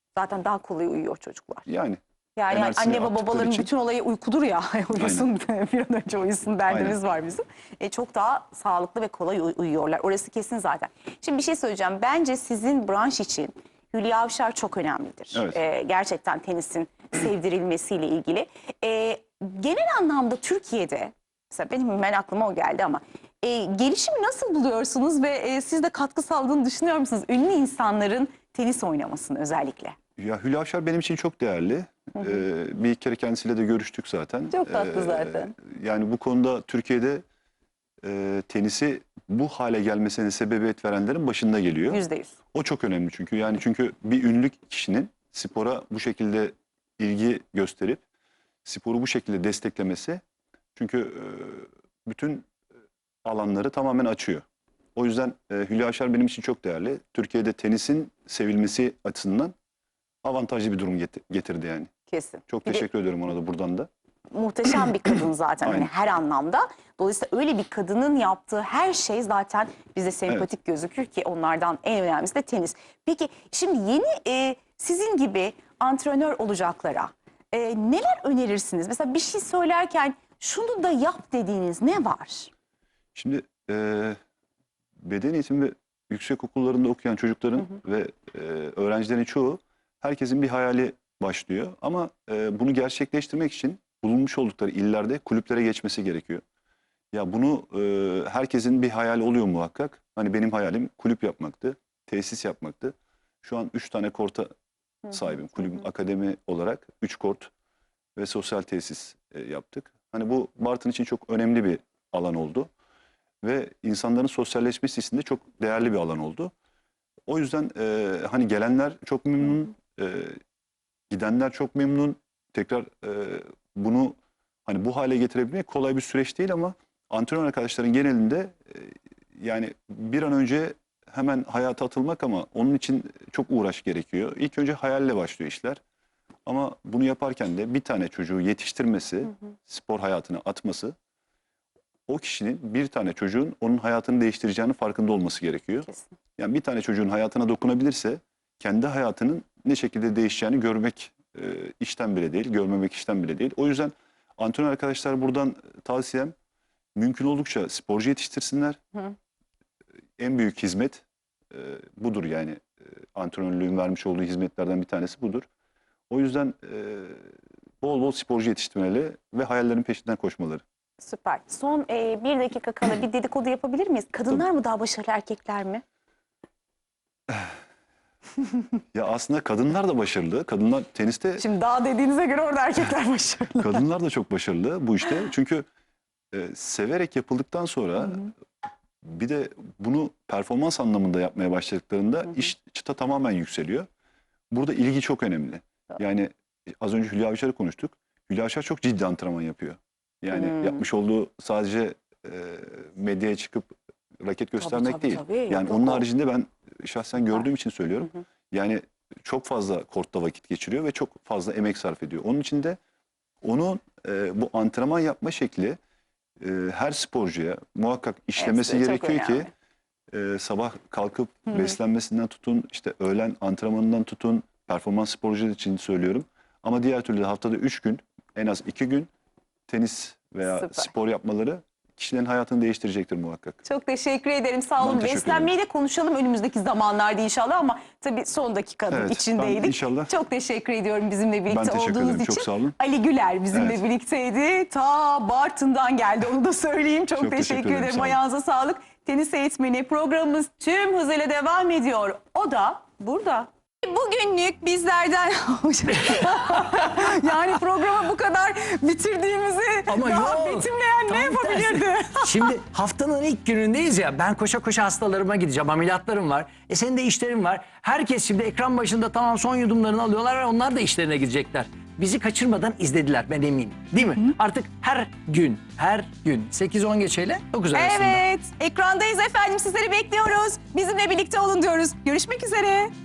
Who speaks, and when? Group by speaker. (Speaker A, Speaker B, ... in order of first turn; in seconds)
Speaker A: 0.1-1.6, 2.4-29.9, 34.5-35.5, 41.9-42.3, 62.1-62.8, 64.3-82.5, 171.0-175.8, 181.4-183.8, 200.4-200.8, 204.6-206.0, 218.4-219.5, 230.5-230.9, 233.6-262.5, 277.7-282.9
Speaker B: 1.6-3.7, 5.0-5.3, 6.7-7.0, 15.3-15.6, 30.2-37.2, 38.0-42.0, 42.5-48.0, 48.6-50.2, 50.8-52.5, 53.2-54.4, 55.0-59.5, 60.2-61.9, 62.5-63.9, 83.1-84.2, 85.0-96.4, 97.1-104.5, 105.1-107.5, 108.1-112.7, 113.4-116.5, 117.3-120.4, 121.1-135.8, 136.4-140.9, 142.1-156.3, 156.9-158.8, 160.2-165.4, 166.1-170.6, 178.9-181.4, 183.6-185.7, 186.3-188.3, 189.0-193.9, 194.5-212.8, 213.4-215.8, 216.4-219.5, 220.1-229.1, 229.7-233.6, 234.8-235.5, 238.9-240.1, 241.5-242.7, 243.5-243.8, 247.2-248.2
Speaker C: 259.9-278.2